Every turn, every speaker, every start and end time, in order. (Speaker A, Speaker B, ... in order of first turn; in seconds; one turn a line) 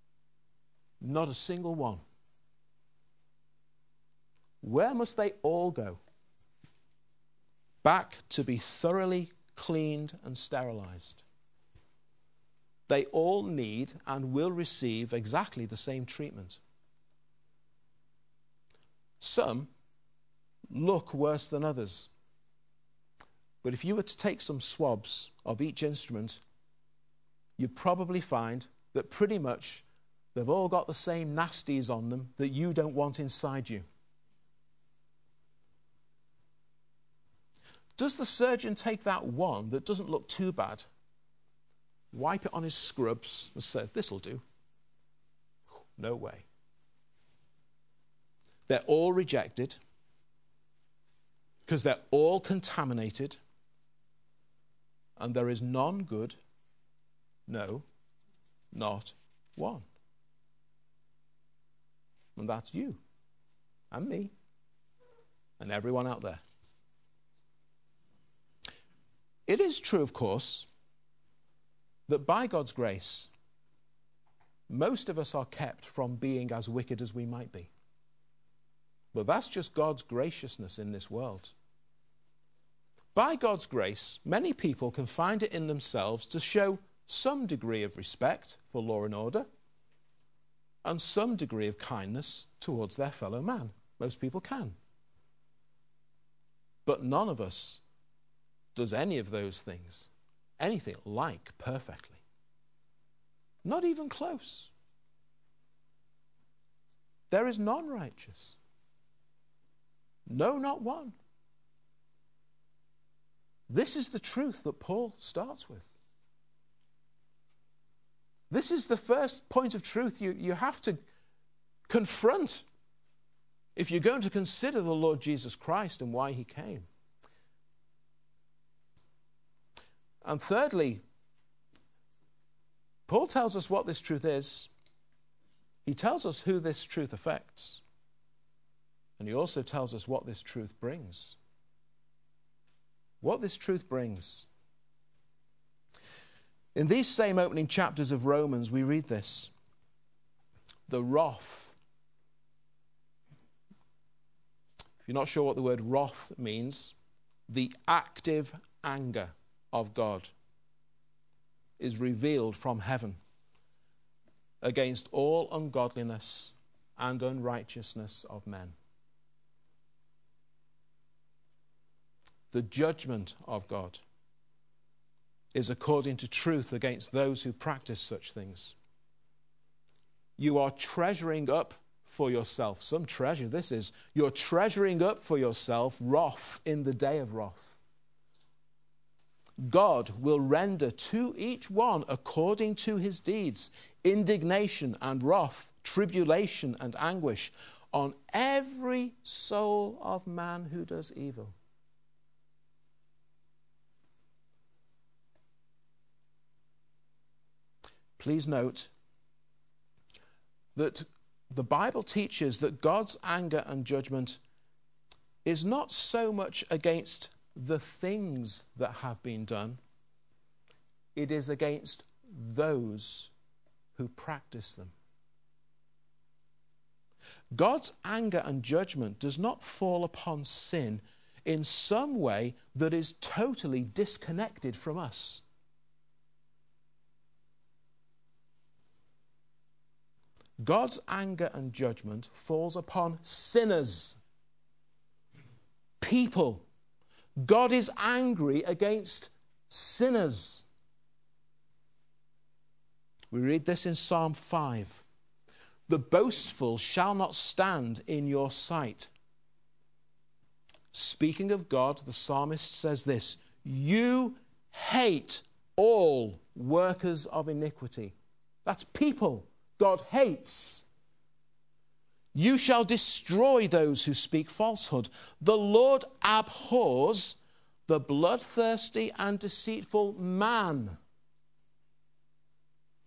Speaker A: 1.0-2.0
Speaker A: 4.6-6.0
Speaker A: 7.8-11.2
Speaker A: 12.9-16.6
Speaker A: 19.2-19.7
Speaker A: 20.7-22.1
Speaker A: 23.6-26.4
Speaker A: 27.6-33.8
Speaker A: 38.0-40.9
Speaker A: 42.1-44.4
Speaker A: 45.7-46.5
Speaker A: 48.7-49.8
Speaker A: 51.6-53.4
Speaker A: 55.2-56.4
Speaker A: 57.5-57.9
Speaker A: 58.7-59.9
Speaker A: 62.4-63.0
Speaker A: 63.9-64.3
Speaker A: 65.6-66.4
Speaker A: 69.5-70.7
Speaker A: 72.1-73.3
Speaker A: 74.7-77.7
Speaker A: 79.1-81.5
Speaker A: 83.1-89.5
Speaker A: 90.8-94.8
Speaker A: 96.8-97.8
Speaker A: 98.7-102.2
Speaker A: 103.6-104.7
Speaker A: 107.3-108.6
Speaker A: 110.3-111.1
Speaker A: 113.7-116.0
Speaker A: 118.5-121.0
Speaker A: 121.9-122.6
Speaker A: 123.8-126.9
Speaker A: 130.2-131.0
Speaker A: 133.1-134.7
Speaker A: 135.8-137.8
Speaker A: 139.2-141.4
Speaker A: 143.2-144.5
Speaker A: 146.7-149.5
Speaker A: 150.9-151.8
Speaker A: 155.0-156.9
Speaker A: 157.5-160.3
Speaker A: 161.8-163.2
Speaker A: 164.6-168.7
Speaker A: 172.5-174.0
Speaker A: 175.5-178.8
Speaker A: 180.4-187.8
Speaker A: 189.6-201.5
Speaker A: 208.2-208.9
Speaker A: 210.7-214.4
Speaker A: 215.4-219.8
Speaker A: 221.1-223.3
Speaker A: 223.9-224.9
Speaker A: 227.5-235.4
Speaker A: 240.6-244.2
Speaker A: 246.0-246.6
Speaker A: 247.4-250.6
Speaker A: 253.3-255.0
Speaker A: 255.9-259.1
Speaker A: 260.9-270.8
Speaker A: 272.3-281.0